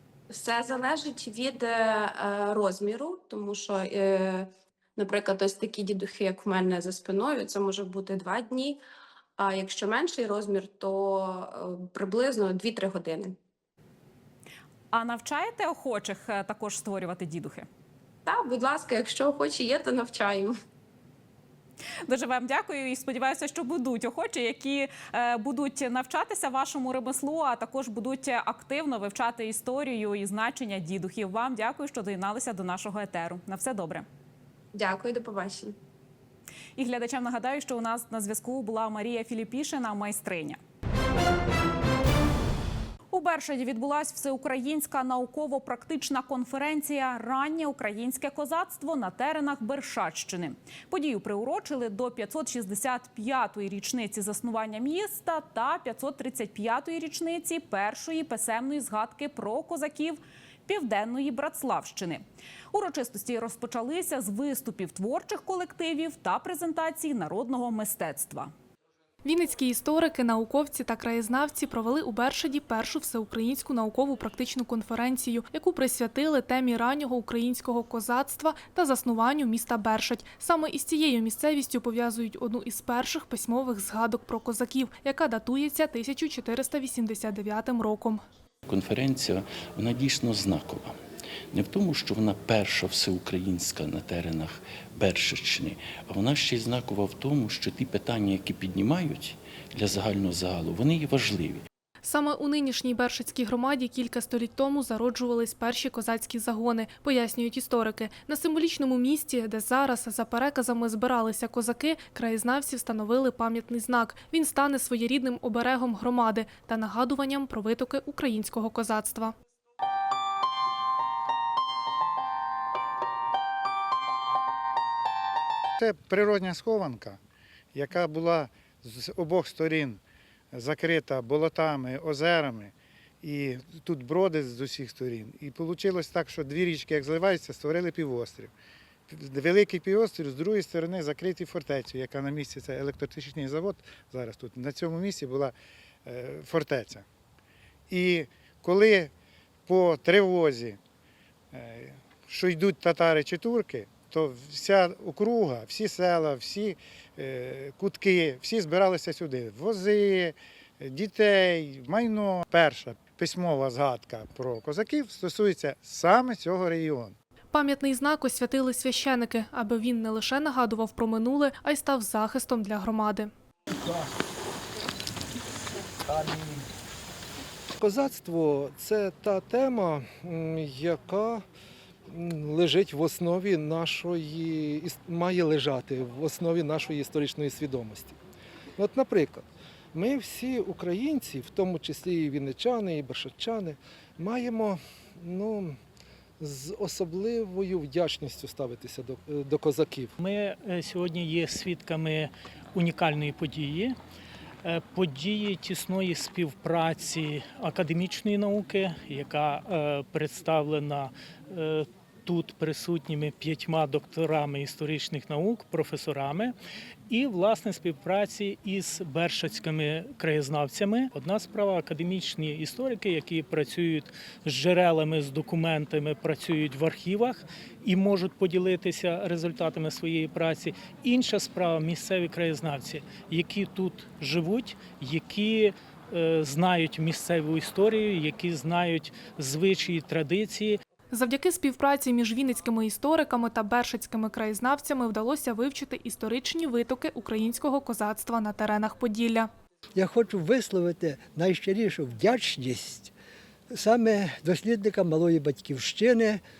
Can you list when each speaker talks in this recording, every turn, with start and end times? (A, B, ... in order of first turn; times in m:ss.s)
0:00.3-0:08.8 A
0:09.4-0:13.4 A
0:14.9-0:17.7 B
0:18.2-0:20.5 A
0:22.1-0:34.0 B
0:34.7-0:35.8 A
0:36.8-0:40.6 B
0:43.1-1:08.5 B
1:09.2-1:28.2 C
1:28.7-1:31.0 D
1:31.5-1:41.6 D
1:42.0-1:59.3 C
2:05.8-2:07.2 E
2:07.7-2:10.0 E
2:10.5-2:12.7 E
2:13.2-2:18.5 E
2:19.1-2:25.5 E
2:26.0-2:27.0 E
2:27.9-2:29.1 E
2:29.7-2:30.8 E
2:31.5-2:47.1 E
2:47.5-2:53.3 C
2:57.8-3:01.4 F
3:02.1-3:08.2 F
3:08.8-3:15.8 F
3:16.4-3:20.1 F
3:20.2-3:23.9 G
3:24.6-3:36.5 G
3:37.1-4:00.8 G
4:01.1-4:09.5 C
4:10.0-4:13.1 H
4:13.7-4:16.4 H